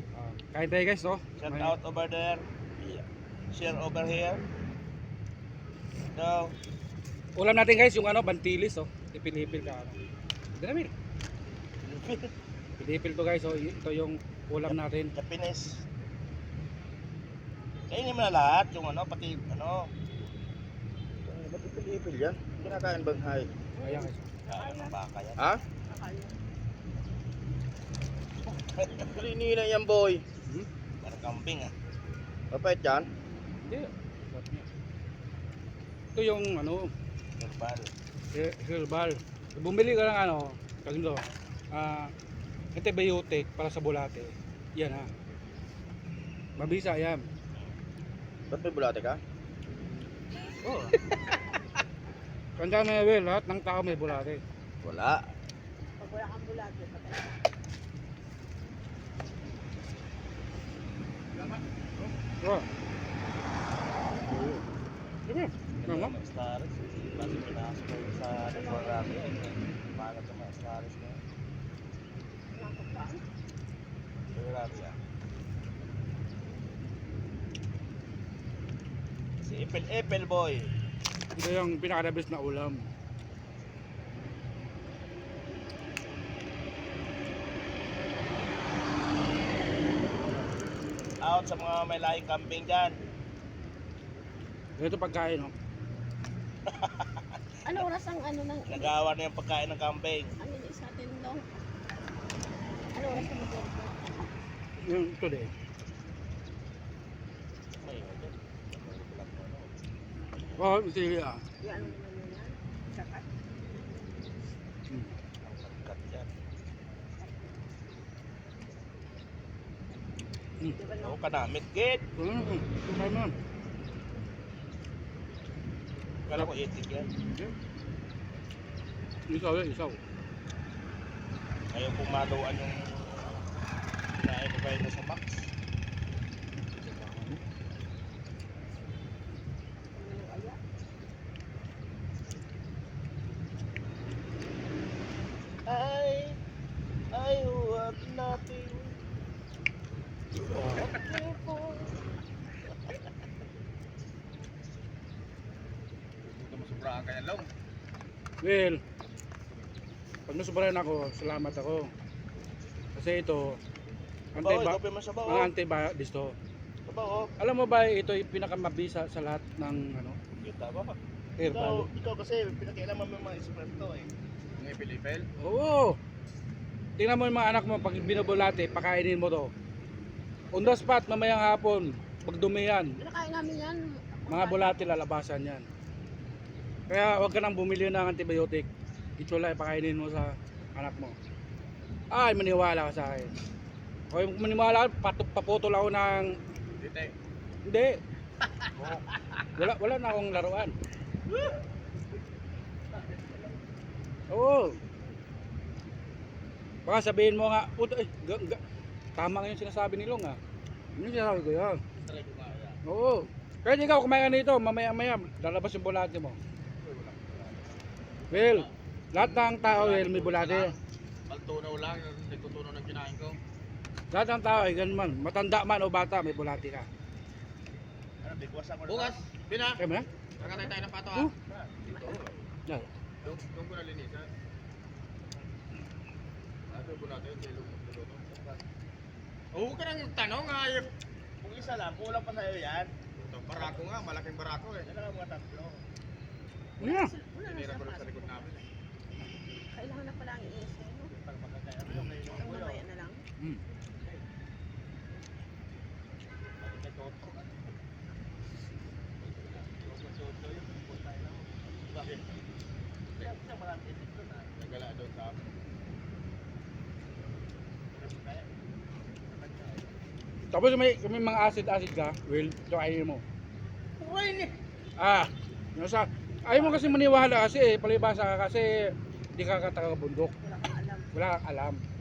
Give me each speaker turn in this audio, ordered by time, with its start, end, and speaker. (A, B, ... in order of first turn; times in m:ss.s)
0:00.1-0:01.7 A
0:01.4-0:04.4 B
0:06.1-0:06.5 B
0:07.4-0:10.0 A
0:10.6-0:10.9 A
0:11.8-0:12.3 B
0:12.8-0:15.1 A
0:15.1-0:15.8 B
0:17.9-0:19.9 B
0:21.2-0:23.6 B
0:23.8-0:24.9 C
0:23.8-0:24.2 A
0:24.5-0:25.6 B
0:25.7-0:26.3 C
0:28.6-0:30.2 B
0:31.0-0:31.7 B
0:32.5-0:33.1 B
0:33.6-0:34.7 A
0:36.1-0:36.9 A
0:37.4-0:37.9 B
0:38.3-0:42.1 A
0:42.7-0:45.1 A
0:46.6-0:47.2 A
0:48.5-0:49.2 B
0:50.6-0:51.0 A
0:52.6-0:54.4 A
0:54.8-0:55.2 B
0:56.0-0:57.4 C
1:01.4-1:01.6 D
1:02.4-1:02.7 A
1:04.2-1:04.6 A
1:05.3-1:06.1 A
1:05.8-1:11.2 B
1:08.4-1:09.3 C
1:12.5-1:13.2 C
1:14.3-1:15.0 B
1:19.4-1:20.7 B
1:21.3-1:22.8 A
1:31.2-1:33.0 B
1:34.8-1:35.5 A
1:36.7-1:37.2 B
1:37.6-1:38.9 C
1:38.6-1:40.3 B
1:40.4-1:41.5 C
1:42.9-1:44.2 C
1:44.8-1:45.5 A
1:47.8-1:49.7 B
1:50.6-1:51.4 A
1:51.6-1:53.3 C
1:55.4-1:56.3 B
1:57.2-1:57.5 C
2:00.7-2:01.2 C
2:01.0-2:02.0 B
2:02.2-2:03.3 A
2:06.2-2:07.1 B
2:09.3-2:10.0 A
2:11.7-2:13.4 B
2:14.2-2:15.5 B
2:16.8-2:17.4 A
2:19.9-2:20.6 C
2:25.6-2:26.4 B
2:27.1-2:29.0 B
2:30.6-2:32.0 B
2:36.2-2:37.5 D
2:38.4-2:38.8 A
2:40.3-2:41.9 A
2:42.9-2:43.6 A
2:44.3-2:46.4 A
2:44.4-2:45.5 B
2:46.8-2:47.3 B
2:47.4-2:50.2 A
2:50.4-2:51.0 B
2:51.4-2:51.9 A
2:51.5-2:54.1 B
2:54.6-2:55.3 D
2:55.4-2:56.0 A
2:57.0-2:59.5 A
3:00.5-3:03.0 A
3:03.0-3:04.9 C
3:04.3-3:05.6 A
3:06.9-3:11.2 A
3:12.1-3:13.3 A
3:14.1-3:16.4 A
3:16.8-3:17.1 D
3:17.6-3:18.0 A
3:18.4-3:19.5 D
3:19.6-3:20.7 A
3:24.3-3:24.8 A
3:26.8-3:28.6 A
3:29.2-3:30.4 A
3:31.0-3:31.8 A
3:32.0-3:32.8 D
3:32.8-3:36.4 A
3:36.8-3:37.6 D
3:38.3-3:40.8 A
3:38.3-3:40.8 D
3:41.3-3:43.4 D
3:44.1-3:46.9 A
3:48.2-3:49.2 B
3:48.9-3:49.8 D
3:49.8-3:50.1 A
3:50.4-3:51.3 D
3:51.5-3:52.3 B
3:51.9-3:52.3 D
3:53.2-3:54.3 D
3:56.7-3:58.5 D
3:59.5-4:00.9 D
4:01.4-4:02.9 B
4:03.2-4:04.9 D
4:04.8-4:05.8 B
4:06.8-4:07.1 A
4:06.8-4:08.7 C
4:07.4-4:08.6 D
4:09.7-4:11.1 C
4:11.1-4:12.8 B
4:12.3-4:13.2 C
4:16.6-4:17.7 B
4:19.2-4:19.7 D
4:19.7-4:22.2 B
4:23.2-4:24.6 B
4:24.6-4:25.4 D
4:27.9-4:28.5 B
4:29.2-4:29.9 B
4:30.5-4:33.2 A
4:34.0-4:34.5 D
4:35.0-4:40.3 A
4:40.4-4:41.1 C
4:41.1-4:41.8 A